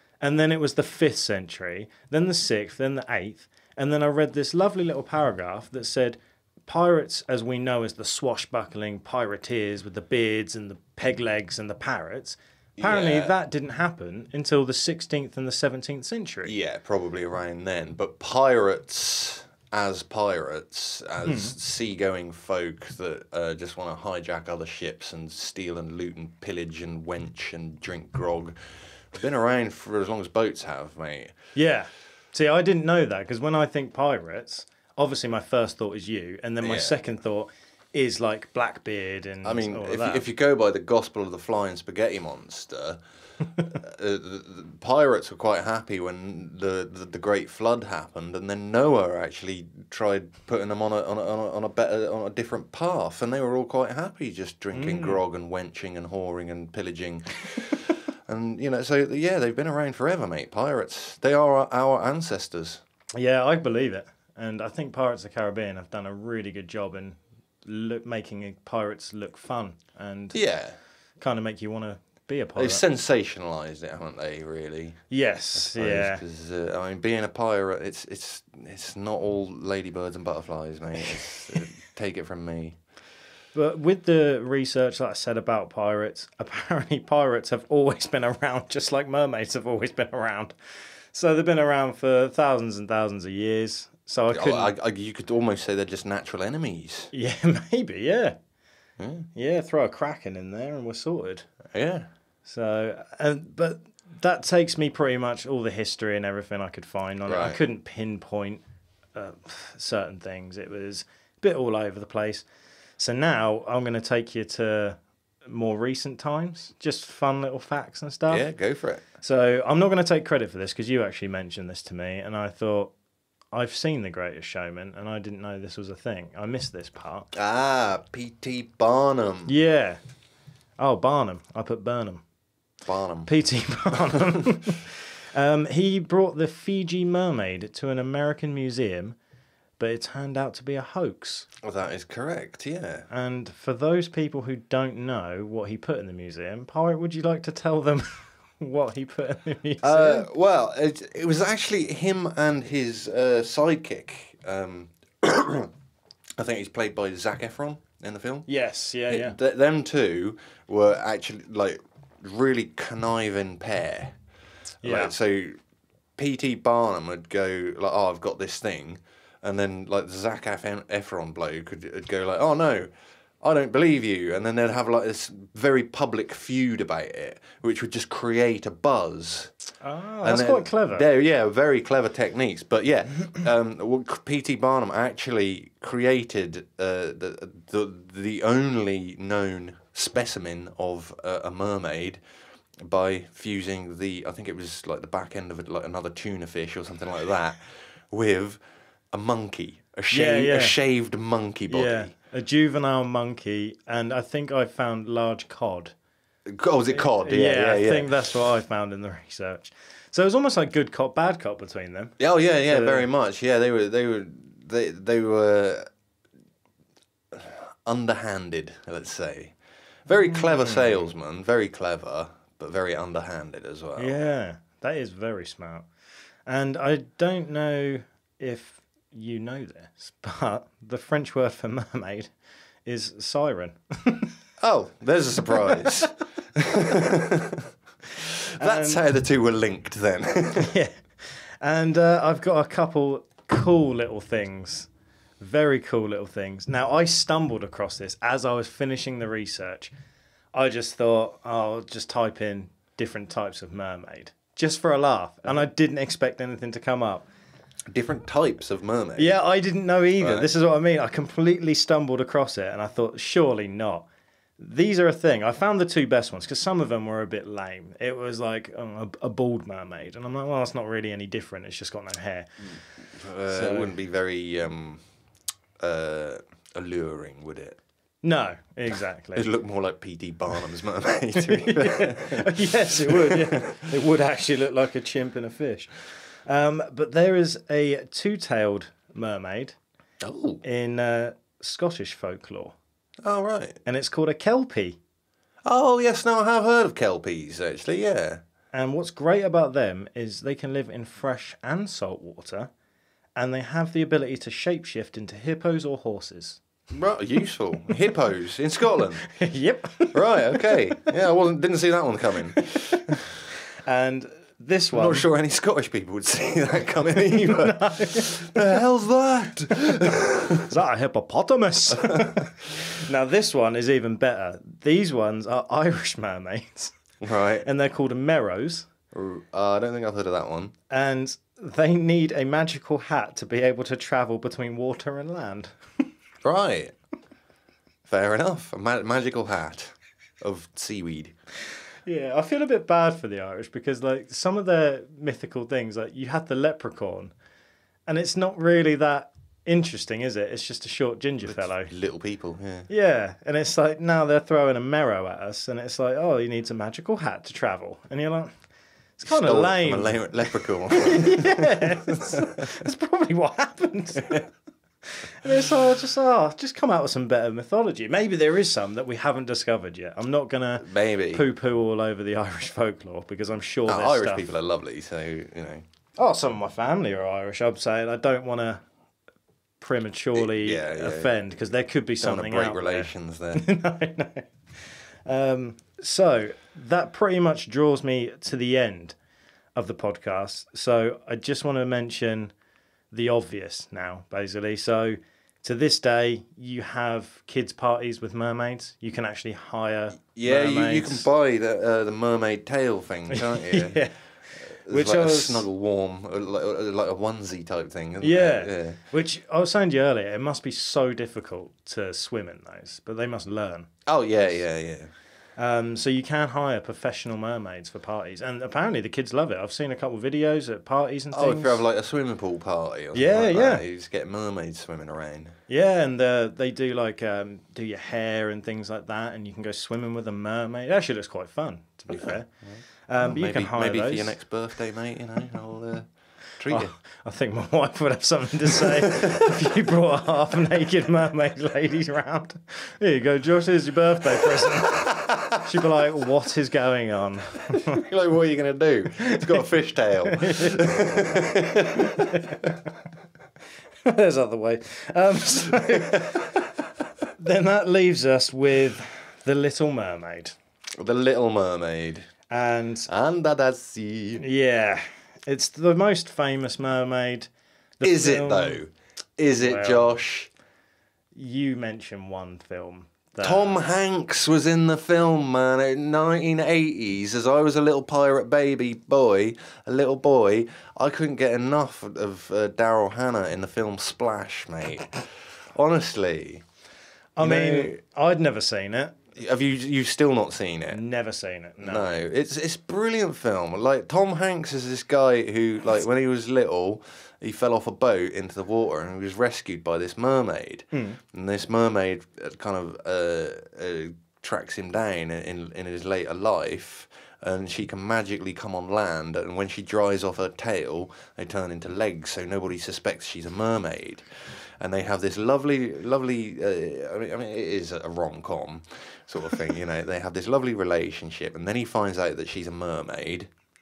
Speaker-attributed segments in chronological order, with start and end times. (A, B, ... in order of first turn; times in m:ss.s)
0:00.2-0:16.5 A
0:12.8-0:13.3 B
0:16.4-0:28.6 B
0:21.2-0:21.5 A
0:29.1-0:31.3 B
0:31.5-0:40.2 A
0:36.6-0:37.0 B
0:39.4-0:43.0 B
0:43.6-1:02.8 B
0:54.7-0:55.2 A
1:03.1-1:10.4 A
1:10.3-1:10.8 B
1:11.2-1:12.8 A
1:12.6-1:15.0 B
1:15.1-1:16.2 A
1:15.6-1:22.8 B
1:23.5-1:30.5 A
1:31.1-1:34.7 A
1:34.3-1:37.1 B
1:37.1-1:38.4 A
1:39.0-1:39.3 B
1:39.3-1:41.5 A
1:41.7-1:42.1 B
1:42.4-1:48.6 A
1:47.3-1:47.6 B
1:49.1-1:52.4 A
1:53.0-1:58.5 A
1:58.3-1:59.0 B
1:59.2-2:02.9 A
2:03.5-2:07.3 A
2:07.3-2:09.5 B
2:09.5-2:10.0 A
2:10.8-2:12.2 A
2:12.8-2:13.3 B
2:13.2-2:19.2 A
2:19.8-2:21.5 A
2:21.6-2:23.0 B
2:23.1-2:30.3 A
2:29.8-2:35.7 B
2:36.4-2:38.5 B
2:38.5-2:39.4 A
2:39.1-2:44.2 B
2:44.8-2:45.6 B
2:44.8-2:45.1 A
2:46.2-2:52.9 B
2:53.4-2:59.5 B
2:59.8-3:01.0 A
3:00.2-3:12.2 B
3:12.8-3:18.6 B
3:19.1-3:22.1 B
3:20.1-3:20.8 A
3:21.7-3:25.9 A
3:26.4-3:28.1 B
3:26.9-3:33.1 A
3:32.2-3:35.9 B
3:37.3-3:39.5 B
3:40.0-3:44.1 B
3:40.3-3:41.0 A
3:44.0-3:45.9 A
3:46.5-3:52.3 A
3:52.8-3:54.3 A
3:54.6-3:57.7 B
3:55.6-3:56.0 A
3:58.6-3:59.0 A
3:58.6-4:00.7 B
4:00.6-4:04.9 A
4:05.4-4:09.9 A
4:10.5-4:17.3 A
4:17.9-4:19.4 B
4:19.2-4:32.5 A
4:20.2-4:20.5 B
4:33.2-4:35.0 B
4:33.5-4:33.9 A
4:35.8-4:37.8 B
4:38.2-4:39.5 A
4:39.3-4:43.9 B
4:41.4-4:45.9 A
4:46.4-4:49.8 A
4:50.2-4:50.6 B
4:50.6-4:52.7 A
4:53.2-4:53.8 B
4:53.8-4:55.0 A
4:55.6-4:58.4 B
4:58.7-5:02.7 A
5:03.4-5:06.6 A
5:06.9-5:09.3 B
5:09.2-5:11.1 A
5:10.1-5:13.2 B
5:12.5-5:13.1 A
5:13.8-5:15.3 A
5:14.9-5:20.7 B
5:17.4-5:18.6 A
5:20.7-5:26.9 A
5:22.0-5:22.3 B
5:27.2-5:27.7 B
5:27.6-5:28.9 A
5:29.1-5:30.7 B
5:30.9-5:36.1 A
5:36.4-5:36.9 B
5:38.1-5:41.3 B
5:42.0-5:47.3 A
5:48.1-5:51.9 A
5:51.5-5:52.9 B
5:52.9-5:58.5 A
5:59.2-6:04.5 A
5:59.2-6:02.6 B
6:05.0-6:14.5 A
6:10.8-6:11.4 B
6:13.9-6:15.8 B
6:16.2-6:18.8 A
6:19.8-6:24.5 A
6:20.3-6:21.3 B
6:22.2-6:23.6 B
6:25.2-6:29.2 A
6:29.8-6:32.5 A
6:33.1-6:41.3 A
6:40.3-6:44.1 B
6:43.3-6:44.1 A
6:44.8-6:49.0 B
6:44.9-6:45.7 A
6:48.2-6:53.9 A
6:54.1-6:55.1 B
6:55.6-7:01.8 A
7:01.3-7:05.6 B
7:03.1-7:03.8 A
7:05.7-7:12.5 A
7:12.1-7:16.9 B
7:13.1-7:14.4 A
7:16.7-7:28.0 A
7:24.8-7:25.6 B
7:27.7-7:32.7 B
7:29.3-7:29.6 A
7:30.2-7:31.4 A
7:32.2-7:32.6 A
7:34.0-7:36.5 A
7:36.1-7:36.4 B
7:37.4-7:40.6 A
7:41.0-7:42.3 B
7:42.5-7:43.1 A
7:43.1-7:44.4 B
7:44.4-7:48.8 A
7:48.0-7:50.5 B
7:49.6-7:50.1 A
7:51.3-7:53.8 A
7:53.4-8:06.6 B
8:07.4-8:09.2 A
8:07.4-8:08.0 B
8:09.3-8:11.0 B
8:10.9-8:12.2 A
8:11.8-8:43.5 B
8:20.9-8:21.2 A